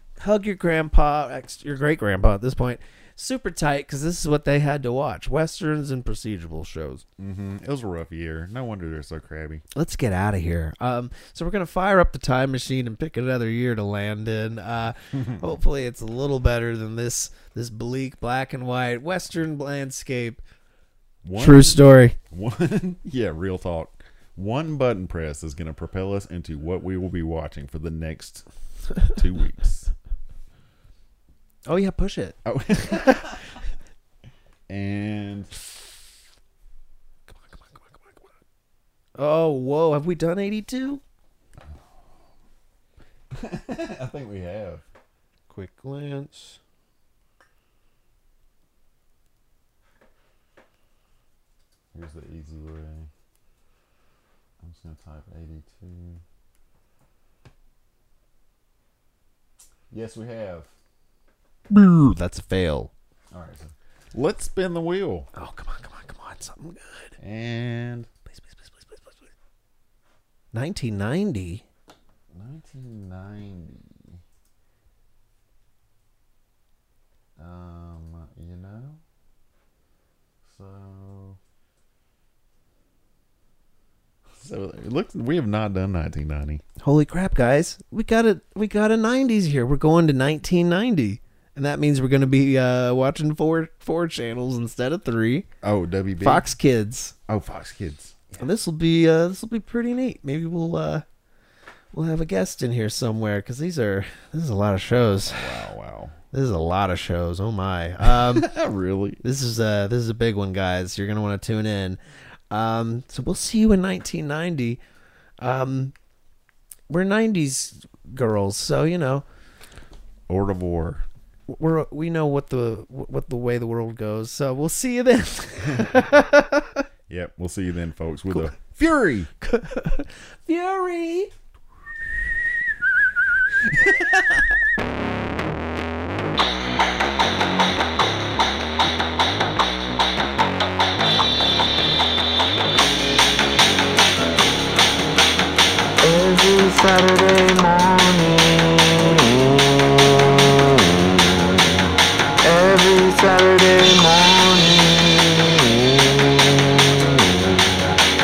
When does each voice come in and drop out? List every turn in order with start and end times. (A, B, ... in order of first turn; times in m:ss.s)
0:00.2-0:07.0 A
0:07.2-0:09.6 B
0:09.7-0:20.4 A
0:15.1-0:15.4 B
0:21.2-0:28.4 B
0:21.4-0:22.2 A
0:29.0-0:29.9 B
0:31.6-0:33.3 A
0:32.4-0:33.5 B
0:34.7-0:35.5 B
0:37.4-0:38.2 A
0:39.2-0:41.0 A
0:41.6-0:42.1 B
0:43.3-0:44.8 B
0:45.5-0:46.6 A
0:51.9-0:53.1 B
0:54.6-0:56.2 B
0:59.9-1:00.7 B
1:01.7-1:02.9 A
1:03.3-1:05.3 B
1:05.3-1:07.2 A
1:07.2-1:08.1 B
1:08.3-1:09.3 A
1:10.5-1:11.6 A
1:12.3-1:14.2 B
1:17.4-1:19.0 B
1:20.4-1:21.4 B
1:24.3-1:26.6 B
1:26.8-1:35.5 A
1:35.6-1:36.4 B
1:36.2-1:37.1 A
1:37.3-1:38.4 B
1:38.4-1:41.0 A
1:41.9-1:45.6 A
1:45.3-1:46.2 B
1:46.3-1:48.5 A
1:48.0-1:49.2 B
1:49.2-1:52.0 A
1:52.5-1:54.8 A
1:55.4-1:55.9 A
1:56.9-1:59.2 A
2:00.3-2:01.0 B
2:01.5-2:06.8 A
2:05.6-2:06.0 B
2:07.1-2:09.3 B
2:09.4-2:11.3 A
2:13.7-2:14.2 B
2:26.0-2:31.7 C
2:32.4-2:37.6 C